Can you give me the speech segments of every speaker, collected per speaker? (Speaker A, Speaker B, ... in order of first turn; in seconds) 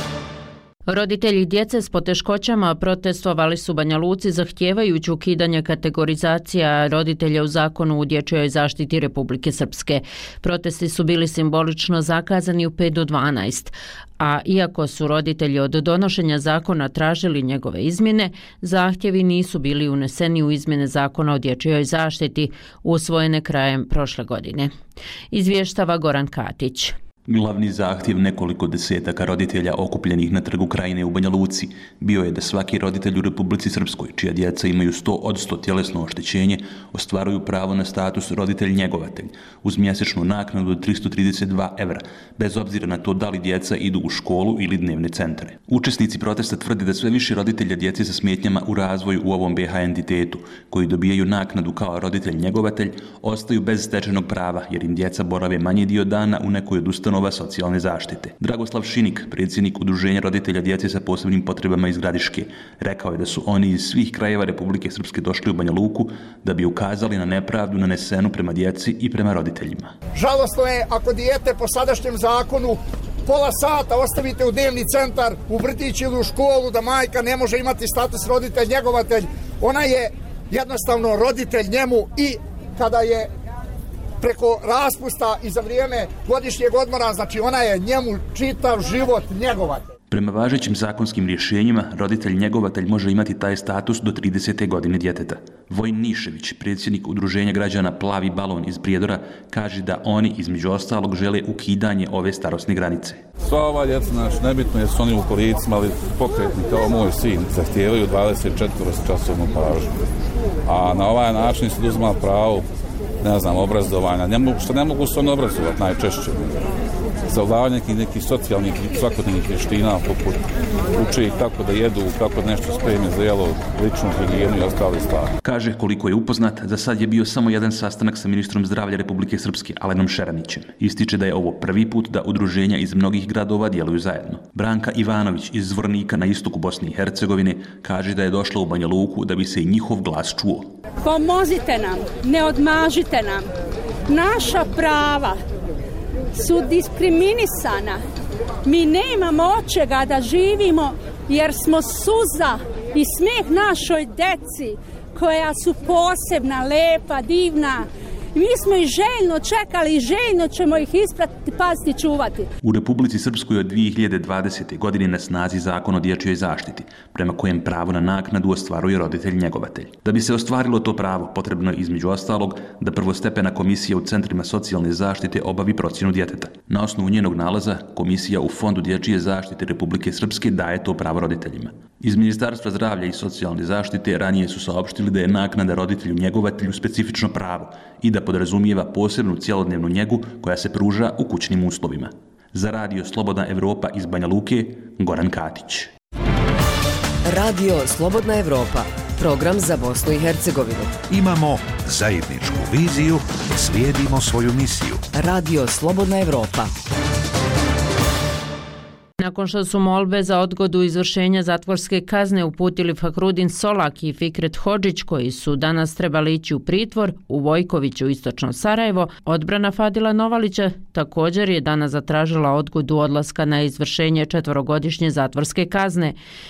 Speaker A: 0.9-24.7, 25.3-26.9, 209.2-226.2
Speaker B: 27.3-69.9, 90.1-103.2, 125.4-140.7, 162.6-195.9
Speaker C: 70.1-83.3, 84.2-89.9
Speaker D: 103.4-110.0, 110.7-112.7, 113.2-116.6, 117.2-125.3
Speaker E: 141.0-143.5, 144.1-145.4, 146.3-148.0, 148.6-162.5
Speaker F: 197.2-201.0, 205.1-206.7
Speaker G: 201.1-205.0